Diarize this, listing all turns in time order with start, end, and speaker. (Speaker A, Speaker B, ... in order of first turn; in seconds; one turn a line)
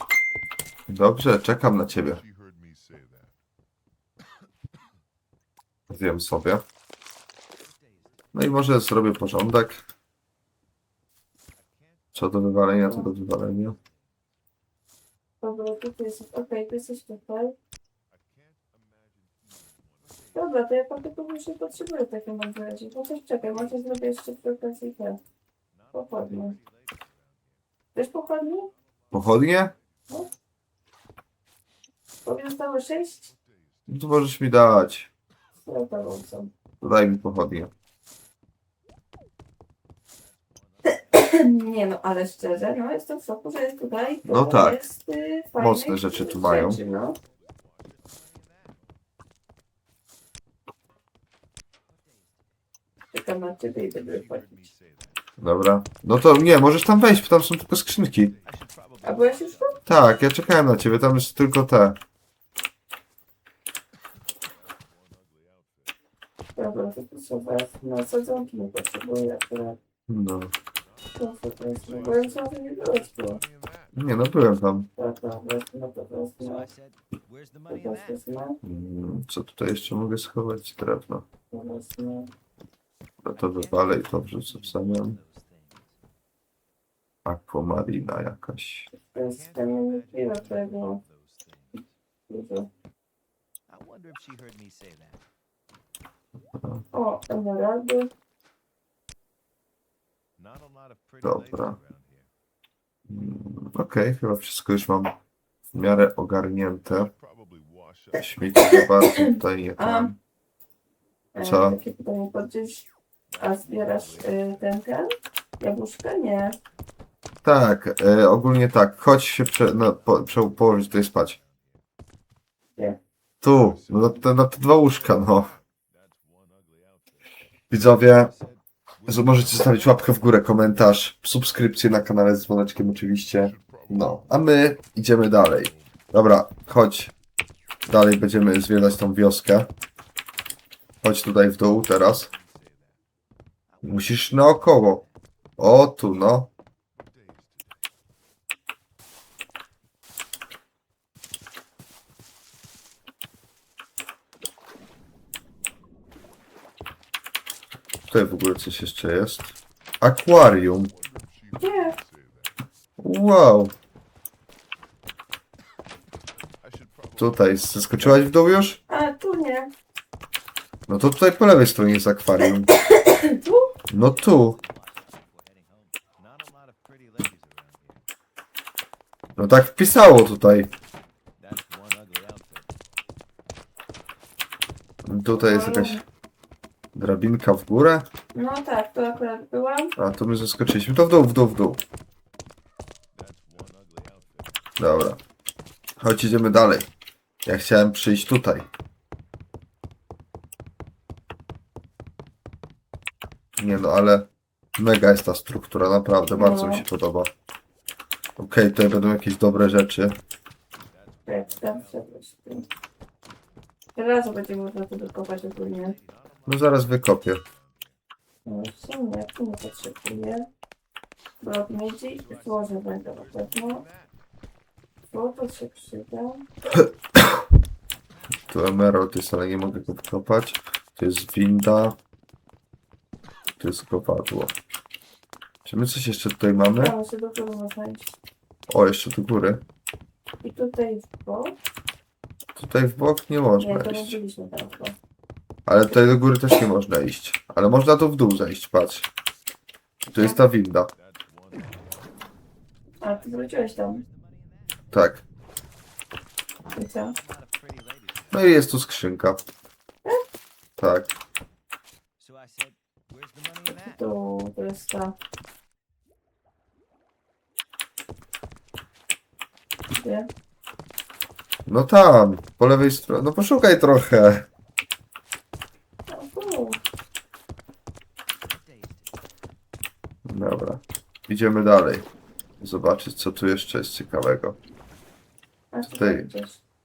Speaker A: 0.9-2.2
Speaker B: 2.4-3.3
Speaker A: 5.9-6.6
Speaker B: 7.8-8.5
Speaker A: 8.3-9.8
Speaker B: 11.7-12.2
Speaker A: 12.2-13.8
Speaker B: 13.8-14.1
Speaker C: 15.4-17.6
Speaker B: 18.2-20.5
Speaker C: 20.3-25.2
Speaker B: 25.8-27.6
Speaker C: 25.9-26.6
Speaker C: 27.9-28.7
Speaker A: 29.1-29.7
Speaker C: 32.2-33.3
Speaker A: 33.9-35.1
Speaker C: 35.7-36.5
Speaker A: 36.8-37.7
Speaker B: 40.5-41.0
Speaker C: 41.1-47.2
Speaker A: 44.2-44.8
Speaker A: 45.6-46.8
Speaker B: 47.2-48.9
Speaker C: 53.1-54.7
Speaker B: 53.9-55.2
Speaker A: 55.4-58.4
Speaker B: 58.4-60.0
Speaker C: 59.0-59.8
Speaker A: 59.9-62.0
Speaker B: 64.6-65.9
Speaker C: 66.6-69.8
Speaker A: 70.1-70.5
Speaker B: 70.9-73.9
Speaker C: 71.2-73.4
Speaker A: 73.9-74.9
Speaker C: 75.0-76.7
Speaker B: 76.4-78.3
Speaker C: 77.7-78.6
Speaker A: 78.6-81.2
Speaker C: 81.5-82.3
Speaker A: 83.2-85.2
Speaker B: 83.3-86.0
Speaker A: 87.2-88.9
Speaker C: 89.0-91.0
Speaker B: 89.2-91.9
Speaker C: 92.3-92.7
Speaker B: 93.7-95.2
Speaker A: 96.5-96.8
Speaker C: 96.9-98.1
Speaker B: 100.4-102.3
Speaker A: 101.2-101.8
Speaker A: 103.1-105.2
Speaker A: 105.7-107.1
Speaker B: 107.1-108.2
Speaker A: 108.2-110.2
Speaker C: 109.1-110.1
Speaker C: 111.3-112.8
Speaker A: 111.4-111.8
Speaker B: 113.3-114.7
Speaker C: 113.4-116.6
Speaker A: 117.4-121.4
Speaker B: 121.3-121.8
Speaker A: 123.4-125.6
Speaker B: 123.9-124.1
Speaker B: 125.9-127.2
Speaker A: 127.7-128.3
Speaker B: 128.3-129.1
Speaker A: 129.1-137.1
Speaker A: 137.9-139.7
Speaker A: 141.0-142.3
Speaker B: 142.2-143.0
Speaker B: 143.7-145.1
Speaker A: 143.8-145.0
Speaker A: 145.6-146.5
Speaker B: 147.0-147.8
Speaker A: 158.1-160.9
Speaker B: 161.5-161.9
Speaker C: 161.6-162.0
Speaker A: 163.0-163.7
Speaker B: 166.7-167.3
Speaker A: 167.2-168.8
Speaker C: 168.9-169.7
Speaker A: 170.9-172.7
Speaker C: 172.7-173.7
Speaker A: 173.9-174.6
Speaker B: 173.9-178.0
Speaker A: 179.4-180.7
Speaker B: 181.4-182.8
Speaker A: 185.1-186.0
Speaker C: 185.3-186.1
Speaker A: 186.9-188.1
Speaker C: 188.3-189.9
Speaker A: 190.0-191.8
Speaker B: 193.2-194.6
Speaker A: 194.8-195.2
Speaker A: 196.0-196.9
Speaker A: 197.4-198.7
Speaker A: 203.6-207.3
Speaker C: 206.3-206.8
Speaker A: 208.4-210.2
Speaker B: 210.8-212.7
Speaker C: 211.3-212.7
Speaker C: 213.9-215.9
Speaker B: 215.6-218.0
Speaker A: 216.5-217.4
Speaker C: 218.5-220.5
Speaker C: 221.4-223.8
Speaker B: 222.1-224.1
Speaker C: 225.1-226.4
Speaker A: 226.8-227.4
Speaker A: 228.5-232.0
Speaker A: 233.6-234.5
Speaker A: 235.7-236.9
Speaker C: 236.8-238.2
Speaker A: 238.7-239.6
Speaker C: 240.4-241.6
Speaker A: 242.6-244.2
Speaker C: 243.6-245.0
Speaker A: 245.7-249.1
Speaker A: 250.1-250.9
Speaker B: 251.0-252.1
Speaker C: 253.0-254.0
Speaker B: 253.0-254.8
Speaker A: 254.9-255.2
Speaker C: 256.8-257.2
Speaker B: 256.9-258.5
Speaker A: 258.3-259.4
Speaker A: 260.8-261.1
Speaker B: 262.2-264.0
Speaker C: 263.8-265.2
Speaker C: 270.0-270.3
Speaker A: 271.7-274.5
Speaker C: 276.1-276.8
Speaker B: 278.4-279.2
Speaker A: 280.2-282.1
Speaker A: 282.6-284.6
Speaker C: 285.7-286.6
Speaker A: 285.9-286.3